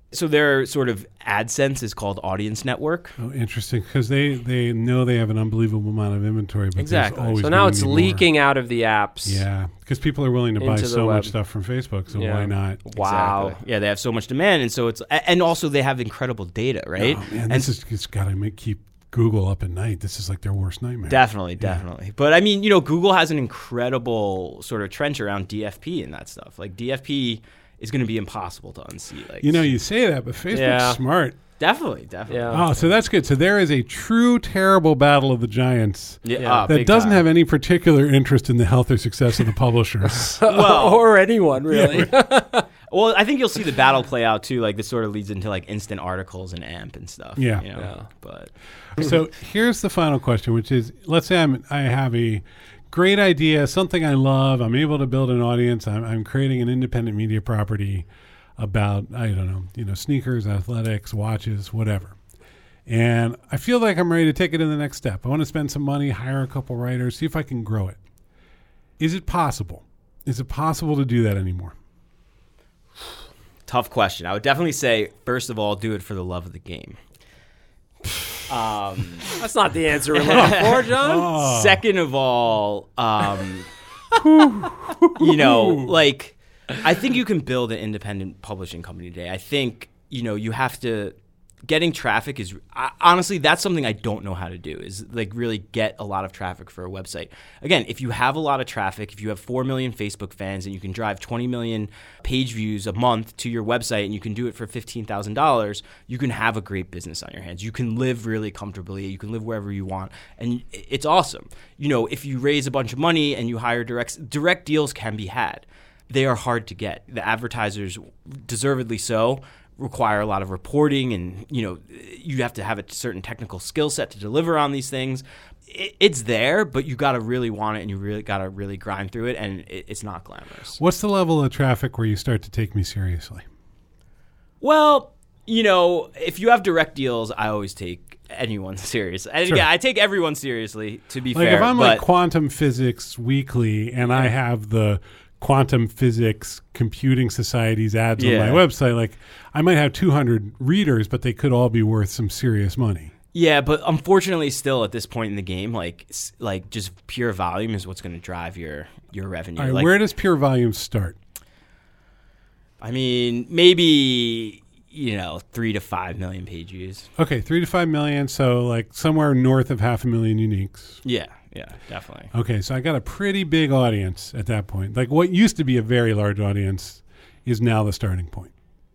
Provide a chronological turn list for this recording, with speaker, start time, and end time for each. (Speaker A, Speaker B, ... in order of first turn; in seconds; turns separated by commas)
Speaker A: 0.1-3.2, Speaker B: 3.2-8.2, Speaker A: 6.8-7.5, Speaker C: 7.4-9.4, Speaker B: 9.2-12.8, Speaker C: 10.6-11.3, Speaker C: 12.1-13.6, Speaker A: 13.0-17.7, Speaker B: 17.0-21.8, Speaker A: 21.1-29.7, Speaker B: 29.4-31.4, Speaker C: 30.5-31.0, Speaker A: 31.6-32.9, Speaker C: 32.3-32.6, Speaker B: 32.5-40.4, Speaker A: 36.2-37.2, Speaker C: 36.4-36.6, Speaker C: 40.0-42.6, Speaker A: 40.5-41.0, Speaker B: 41.7-42.1, Speaker A: 42.9-48.5, Speaker B: 47.4-47.6, Speaker C: 47.8-48.1, Speaker B: 49.0-58.0, Speaker B: 58.6-62.1, Speaker B: 62.9-68.0, Speaker B: 69.0-71.7, Speaker A: 73.7-77.0, Speaker A: 78.5-79.4, Speaker C: 79.3-81.3, Speaker A: 80.1-83.7, Speaker B: 80.3-81.8, Speaker B: 84.2-86.0, Speaker A: 85.2-130.8, Speaker B: 130.8-133.4, Speaker A: 134.6-142.0, Speaker B: 141.3-153.1, Speaker A: 148.2-148.6, Speaker A: 153.3-159.9, Speaker B: 159.6-161.2, Speaker A: 162.8-167.1, Speaker B: 167.2-171.0, Speaker A: 171.0-172.3, Speaker B: 172.3-178.5